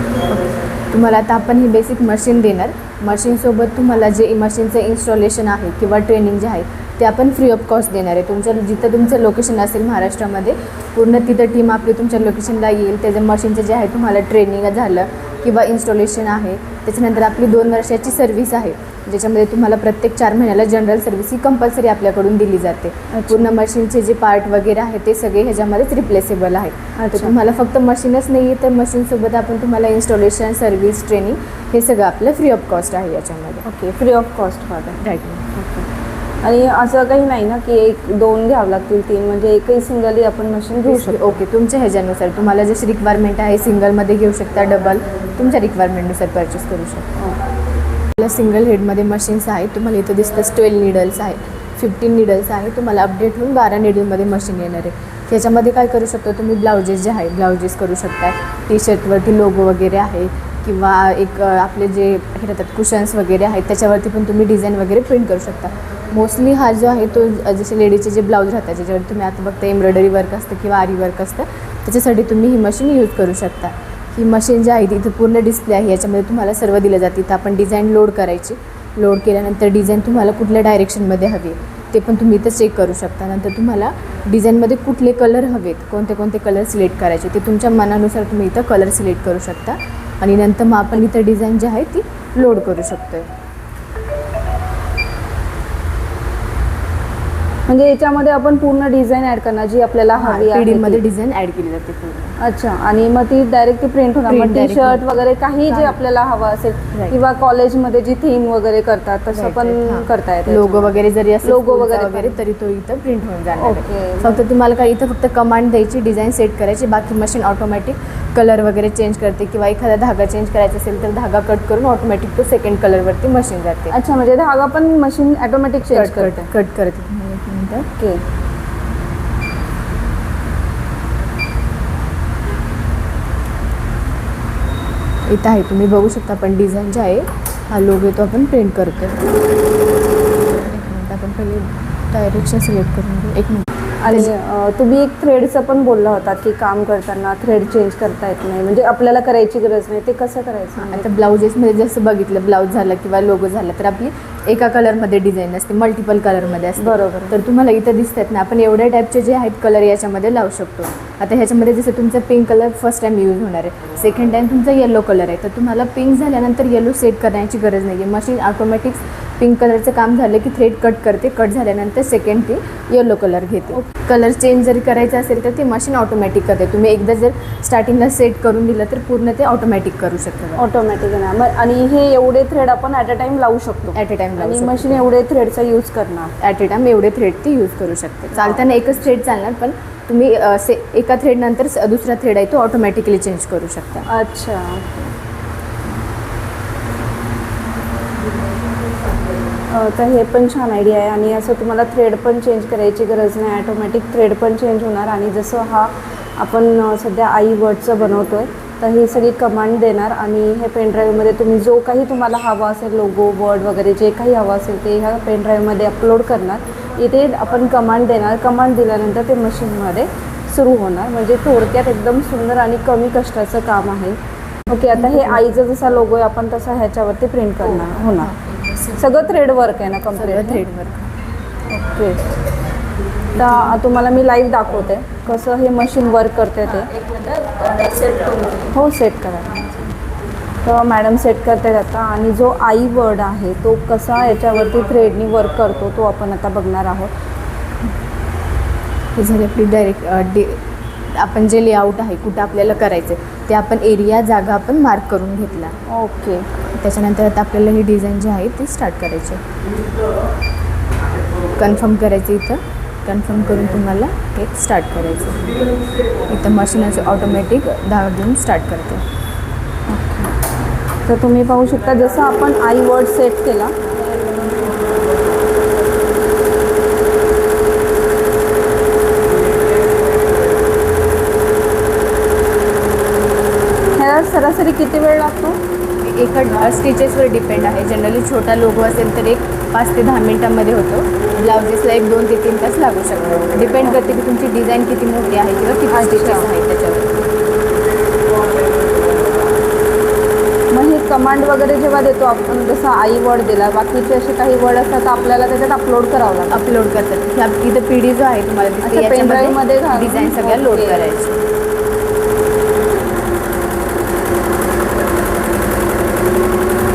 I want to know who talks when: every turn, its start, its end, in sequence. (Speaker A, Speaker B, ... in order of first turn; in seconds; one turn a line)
Speaker A: 0.3-33.6
Speaker B: 23.1-23.5
Speaker B: 27.0-27.3
Speaker B: 33.6-35.0
Speaker A: 35.0-35.4
Speaker B: 35.5-35.9
Speaker B: 36.4-41.3
Speaker A: 40.9-47.1
Speaker A: 48.2-93.3
Speaker B: 97.7-101.0
Speaker A: 100.2-102.4
Speaker B: 102.4-112.3
Speaker A: 104.3-105.0
Speaker A: 105.7-106.0
Speaker A: 109.3-123.9
Speaker B: 113.6-114.4
Speaker B: 123.9-126.5
Speaker A: 125.9-127.9
Speaker B: 127.9-128.2
Speaker A: 135.3-139.2
Speaker A: 140.5-144.3
Speaker B: 144.0-151.1
Speaker A: 150.8-180.6
Speaker B: 156.8-157.4
Speaker B: 180.6-186.3
Speaker A: 183.9-185.1
Speaker A: 186.4-194.1
Speaker B: 188.4-188.7
Speaker B: 194.1-195.1
Speaker B: 199.7-224.2
Speaker B: 224.7-228.3
Speaker A: 224.9-225.5
Speaker B: 228.9-230.6
Speaker A: 230.2-231.1
Speaker B: 231.7-232.2
Speaker B: 233.3-237.0
Speaker B: 238.5-239.7
Speaker B: 240.6-247.1
Speaker A: 249.2-250.6
Speaker A: 251.2-255.7
Speaker B: 255.9-256.5
Speaker A: 256.8-259.4
Speaker A: 261.6-265.6
Speaker A: 266.3-269.0
Speaker B: 269.9-270.3
Speaker B: 271.0-273.7
Speaker B: 284.0-285.6
Speaker A: 286.0-297.3
Speaker B: 295.9-296.5
Speaker B: 300.7-306.7
Speaker A: 306.5-311.4
Speaker B: 308.8-311.1